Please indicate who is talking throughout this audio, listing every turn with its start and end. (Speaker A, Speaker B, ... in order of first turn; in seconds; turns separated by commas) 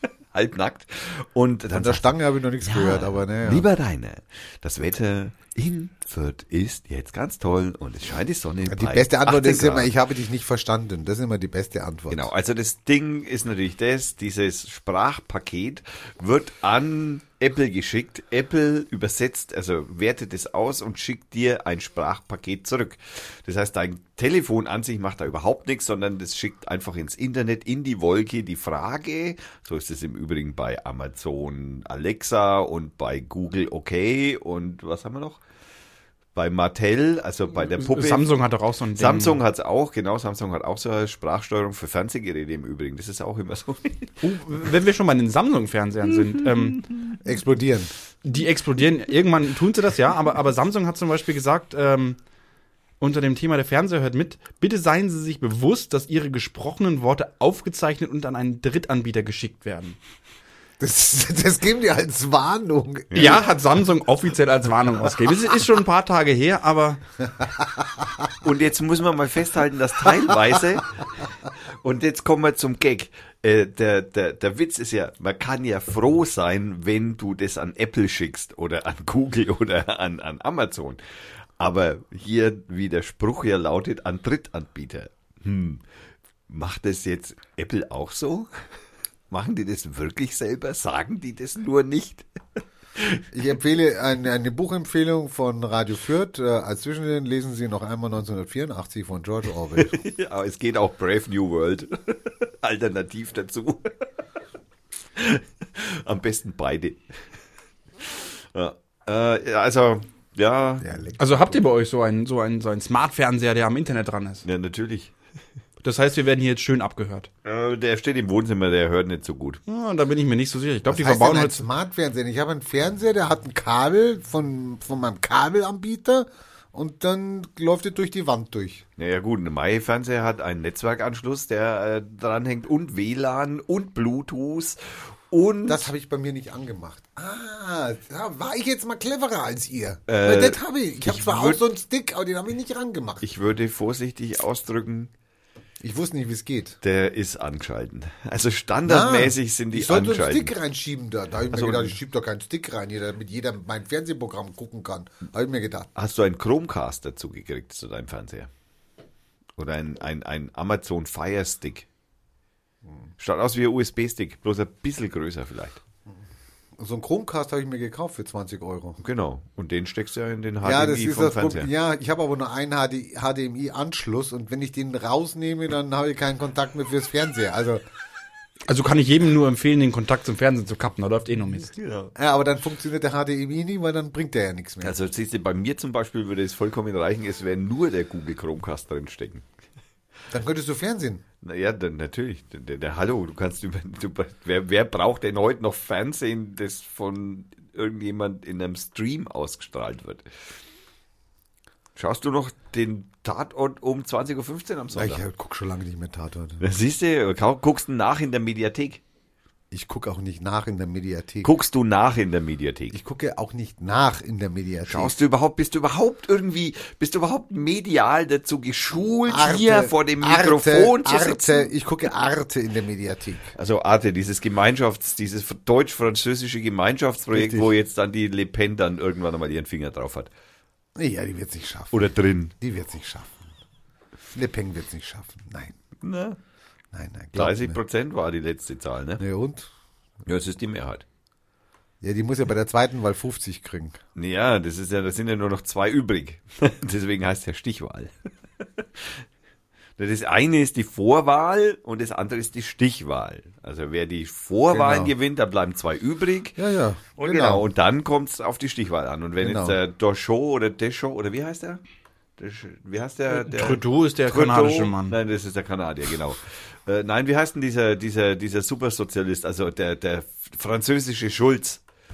Speaker A: 0.3-2.1, Speaker B: 1.7-3.6, Speaker A: 2.6-9.9, Speaker B: 8.7-12.3, Speaker A: 12.1-35.4, Speaker A: 36.3-38.3, Speaker C: 37.7-39.4, Speaker A: 39.0-44.1, Speaker C: 44.2-46.9, Speaker B: 47.2-47.9, Speaker C: 48.2-52.2, Speaker C: 53.0-60.0, Speaker B: 60.8-63.4, Speaker A: 63.1-63.4, Speaker C: 63.1-67.0, Speaker A: 68.4-71.3, Speaker A: 71.8-85.8, Speaker A: 86.5-88.5, Speaker A: 89.3-92.3, Speaker A: 93.0-93.2, Speaker B: 93.3-100.0, Speaker A: 99.8-103.9, Speaker A: 105.2-107.2, Speaker A: 108.0-110.9, Speaker B: 110.8-111.6, Speaker C: 111.2-114.4, Speaker A: 114.4-115.1, Speaker C: 115.8-117.3, Speaker A: 117.4-119.6, Speaker C: 119.7-121.6, Speaker B: 120.9-128.8, Speaker A: 129.0-135.9, Speaker B: 135.7-143.2, Speaker A: 140.1-141.6, Speaker A: 143.2-145.1, Speaker B: 145.8-146.8, Speaker A: 146.8-150.5, Speaker B: 148.8-155.9, Speaker A: 151.5-152.0, Speaker A: 155.9-158.5, Speaker A: 159.6-161.8, Speaker A: 163.2-165.8, Speaker B: 166.8-169.0, Speaker A: 169.0-171.7, Speaker B: 170.6-177.8, Speaker C: 178.7-181.7, Speaker A: 181.7-182.1, Speaker B: 182.2-184.9, Speaker A: 184.8-189.4, Speaker B: 190.3-191.2, Speaker A: 191.4-200.3, Speaker A: 201.9-205.2, Speaker B: 204.9-206.6, Speaker A: 206.6-209.0, Speaker B: 209.7-211.5, Speaker A: 211.4-212.9, Speaker B: 212.9-215.2, Speaker A: 214.9-221.7, Speaker B: 219.2-223.5, Speaker A: 223.5-230.3, Speaker B: 227.3-227.7, Speaker B: 230.9-233.3, Speaker A: 231.9-232.5, Speaker B: 234.3-235.7, Speaker A: 236.0-236.4, Speaker B: 236.9-237.8, Speaker A: 237.3-239.2, Speaker B: 239.2-239.7, Speaker A: 240.2-241.0, Speaker B: 242.0-244.0, Speaker A: 244.1-248.1, Speaker A: 248.8-249.2, Speaker A: 250.0-256.6, Speaker B: 254.7-255.1, Speaker B: 256.6-257.6, Speaker A: 257.2-261.8, Speaker B: 259.4-259.8, Speaker A: 262.4-271.8, Speaker C: 263.3-265.2